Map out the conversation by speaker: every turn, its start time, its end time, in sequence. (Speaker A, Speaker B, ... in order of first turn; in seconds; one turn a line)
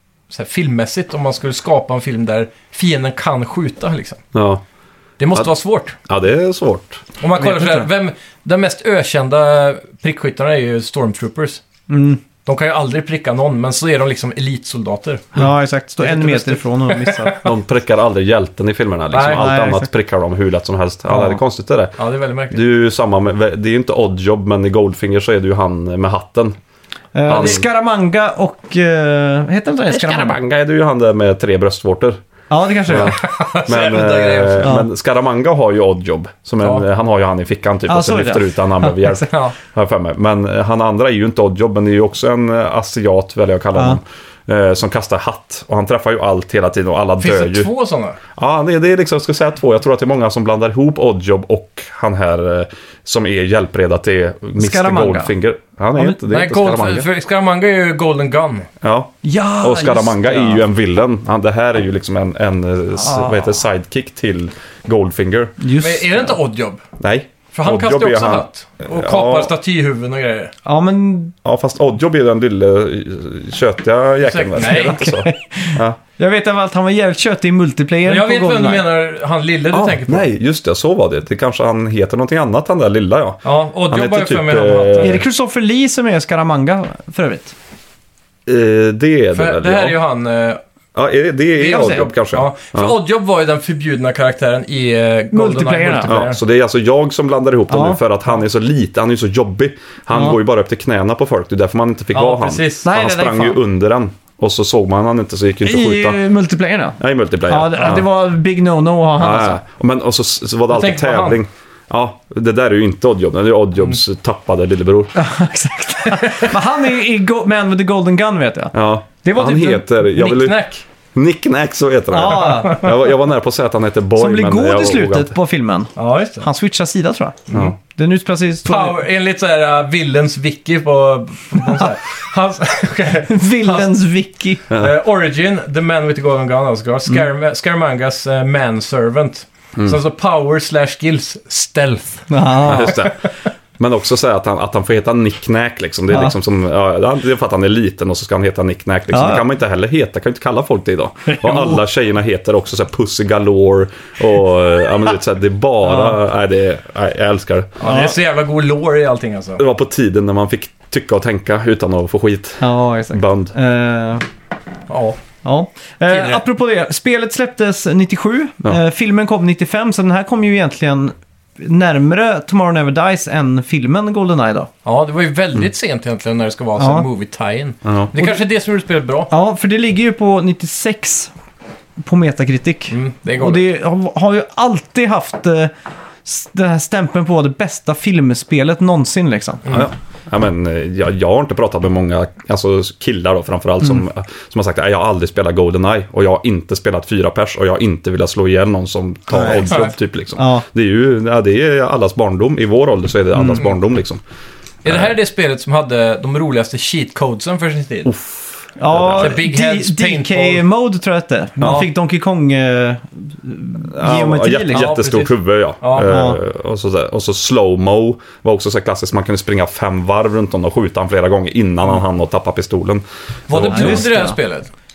Speaker A: 0.3-4.2
Speaker B: 4.3-4.6
Speaker A: 5.2-6.0
Speaker B: 6.1-7.0
Speaker A: 7.2-11.6
Speaker C: 7.4-7.9
Speaker C: 11.9-12.2
Speaker A: 12.4-15.3
Speaker C: 15.3-17.4
Speaker A: 16.0-17.5
Speaker B: 17.4-22.0
Speaker A: 19.1-19.4
Speaker C: 19.2-19.9
Speaker C: 21.1-21.4
Speaker A: 22.0-22.6
Speaker B: 22.5-26.6
Speaker C: 27.1-30.4
Speaker B: 27.3-27.6
Speaker B: 29.9-32.2
Speaker C: 32.5-33.2
Speaker B: 32.9-47.7
Speaker A: 32.9-34.8
Speaker C: 37.9-39.3
Speaker A: 47.2-48.2
Speaker B: 48.4-57.1
Speaker C: 54.6-55.3
Speaker A: 56.3-58.7
Speaker B: 58.8-65.5
Speaker C: 59.2-60.6
Speaker C: 63.0-63.5
Speaker C: 65.6-66.4
Speaker A: 65.8-66.8
Speaker B: 67.0-69.5
Speaker A: 67.5-70.5
Speaker C: 70.6-71.3
Speaker B: 71.4-76.0
Speaker A: 74.2-75.1
Speaker C: 74.7-78.8
Speaker A: 78.0-80.3
Speaker B: 79.7-85.2
Speaker A: 83.4-85.2
Speaker C: 85.0-87.5
Speaker B: 88.5-90.0
Speaker A: 89.3-90.6
Speaker B: 90.9-92.9
Speaker A: 91.6-96.4
Speaker C: 91.6-92.0
Speaker C: 95.3-96.1
Speaker B: 96.0-106.2
Speaker C: 97.7-98.0
Speaker A: 102.1-102.9
Speaker C: 102.8-103.6
Speaker C: 105.6-109.6
Speaker B: 107.0-108.1
Speaker B: 109.2-115.1
Speaker A: 110.7-111.4
Speaker C: 115.1-119.8
Speaker B: 118.7-120.6
Speaker A: 120.1-120.8
Speaker B: 121.1-125.3
Speaker C: 122.1-122.9
Speaker A: 122.3-122.9
Speaker C: 124.2-129.0
Speaker A: 126.0-126.5
Speaker A: 128.6-133.9
Speaker C: 133.3-134.7
Speaker B: 134.7-134.9
Speaker A: 134.7-142.3
Speaker C: 142.3-143.0
Speaker B: 142.7-143.2
Speaker B: 143.8-157.8
Speaker C: 149.1-149.4
Speaker C: 151.2-151.8
Speaker C: 155.8-156.2
Speaker A: 157.8-159.6
Speaker C: 157.8-158.1
Speaker B: 159.6-163.5
Speaker C: 162.6-164.2
Speaker A: 164.9-165.2
Speaker C: 165.4-174.7
Speaker A: 166.1-166.4
Speaker A: 174.8-179.3
Speaker C: 176.8-177.1
Speaker B: 177.8-178.1
Speaker C: 179.3-181.3
Speaker C: 182.0-185.7
Speaker A: 182.9-183.7
Speaker C: 186.2-189.7
Speaker B: 189.7-204.2
Speaker C: 199.3-200.6
Speaker A: 199.6-199.9
Speaker C: 203.3-203.6
Speaker A: 204.8-208.1
Speaker B: 204.8-205.1
Speaker B: 208.1-209.4
Speaker C: 208.8-214.9
Speaker A: 209.2-210.6
Speaker A: 211.6-211.9
Speaker B: 213.9-224.2
Speaker A: 214.7-216.1
Speaker C: 216.0-216.4
Speaker A: 223.5-224.7
Speaker C: 223.6-224.4